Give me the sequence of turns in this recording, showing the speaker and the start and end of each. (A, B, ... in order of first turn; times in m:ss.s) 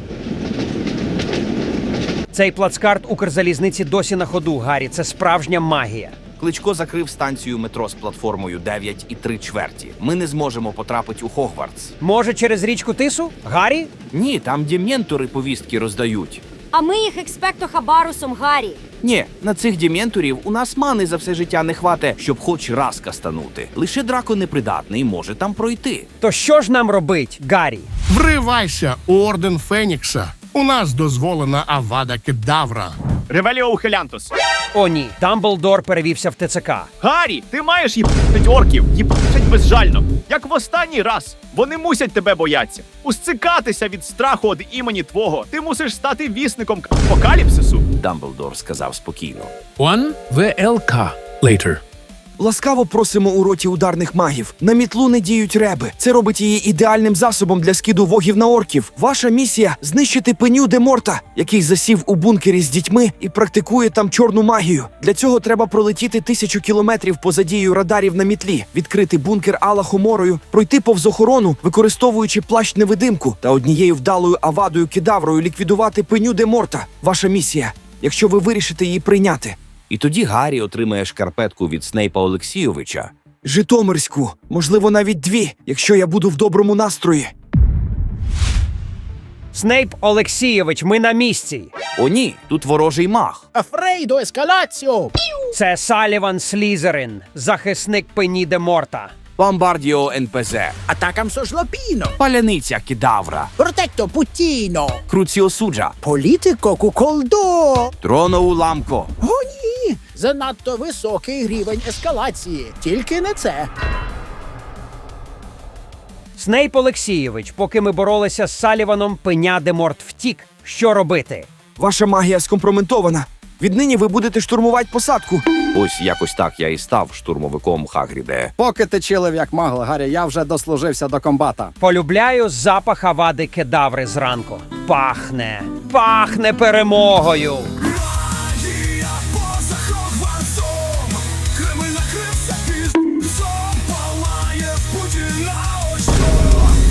0:02.3-0:06.2 A
0:06.4-0:11.9 B
0:12.0-0:13.9 A
0:14.1-0:16.4 B
0:16.7-0:18.8 C
0:19.0-0:26.1 B
0:26.2-0:27.9 A
0:28.1-0:32.9 D
0:33.3-0:34.3 E
0:34.7-0:36.9 A
0:37.0-0:47.8 E
0:48.0-0:49.5 B
0:49.8-0:51.8 F
0:52.4-1:19.6 G
1:19.9-1:23.1 B
1:23.4-1:27.3 G
1:29.5-1:31.7 A
1:32.0-1:33.4 B
1:33.5-1:35.1 H
1:35.5-1:39.2 A
1:39.4-1:40.8 B
1:40.9-1:42.1 H
1:42.2-1:43.5 B
1:43.6-1:45.0 H
1:45.1-1:45.9 B
1:46.0-1:47.9 H
1:48.0-1:49.1 B
1:49.2-1:53.7 H
1:56.4-2:01.5 A
2:01.8-2:05.4 G
2:05.7-2:08.5 B
2:08.6-2:11.7 I
2:11.8-2:17.7 A
2:17.9-2:26.7 D